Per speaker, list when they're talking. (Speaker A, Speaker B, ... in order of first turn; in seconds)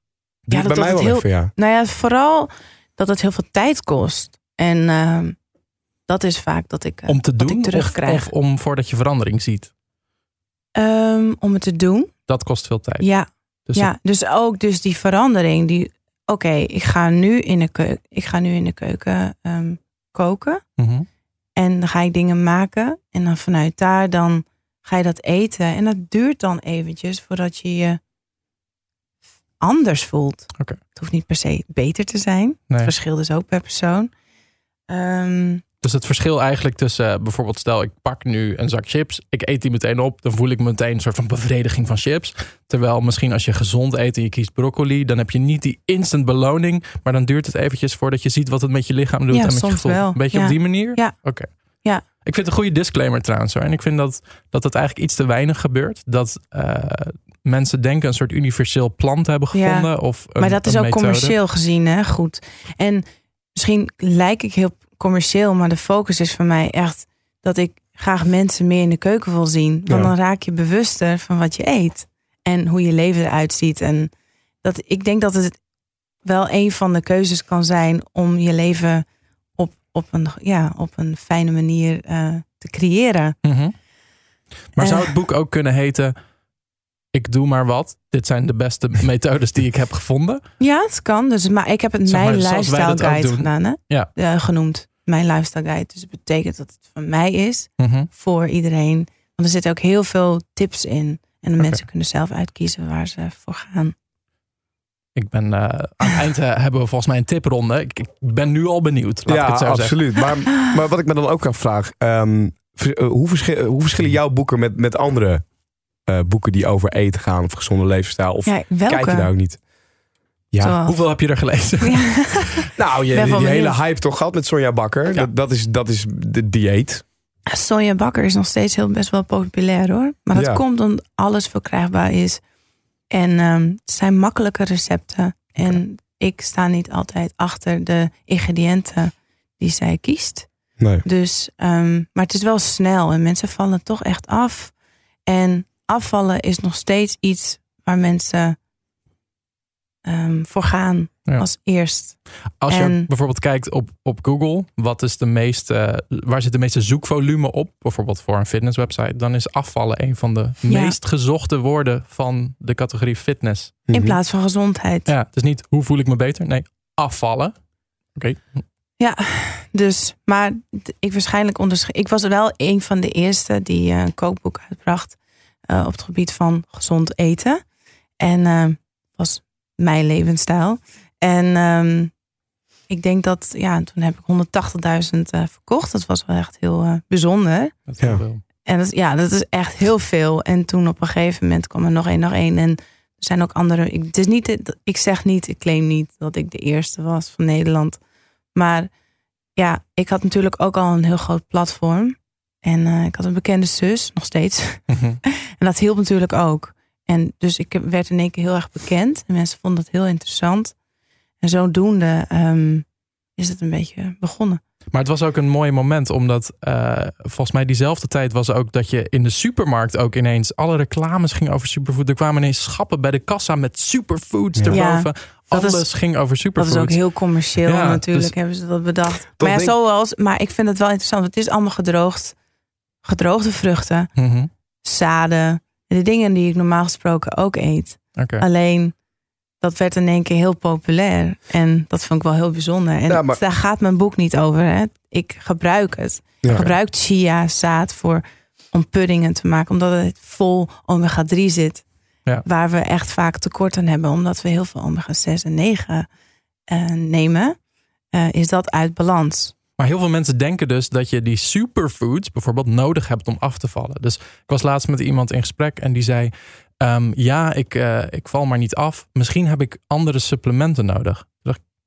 Speaker A: 0.5-1.5, 109.3-115.4, 116.0-119.6, 120.5-120.8, 122.8-127.0, 130.3-130.6, 140.8-141.0, 163.9-164.2, 229.4-229.7, 243.1-243.4, 246.4-246.7
Speaker B: 0.5-5.4, 6.1-8.3, 10.7-12.1, 13.0-20.6, 21.6-28.0, 29.6-34.1, 34.9-35.6, 49.3-51.1, 59.5-74.1, 74.6-75.6, 76.2-79.0, 79.5-83.3, 84.8-85.1, 90.6-103.9, 118.5-119.3, 120.6-121.0, 121.8-123.8, 127.5-132.4, 133.1-140.5, 141.0-144.7, 145.2-148.6, 150.0-153.1, 160.7-161.0, 163.9-165.1, 169.0-177.6, 178.2-182.1, 182.9-187.8, 188.6-198.0, 198.5-198.9, 199.5-210.8, 211.4-212.8, 213.4-214.6, 224.7-225.8, 226.6-232.3, 233.0-234.1, 234.8-238.9, 239.6-251.8, 252.4-256.1, 256.7-257.6, 258.1-259.5
Speaker C: 7.1-9.7, 12.3-13.1, 20.8-21.1, 35.8-51.5, 52.2-61.4, 83.4-83.7, 84.7-86.1, 87.1-90.4, 92.0-94.1, 97.8-98.1, 105.1-110.2, 120.8-122.6, 152.6-163.8, 165.1-167.5, 168.1-168.6, 187.9-188.4, 204.9-205.2, 214.9-227.0, 227.6-228.3, 234.2-234.5, 238.2-238.4, 259.8-271.6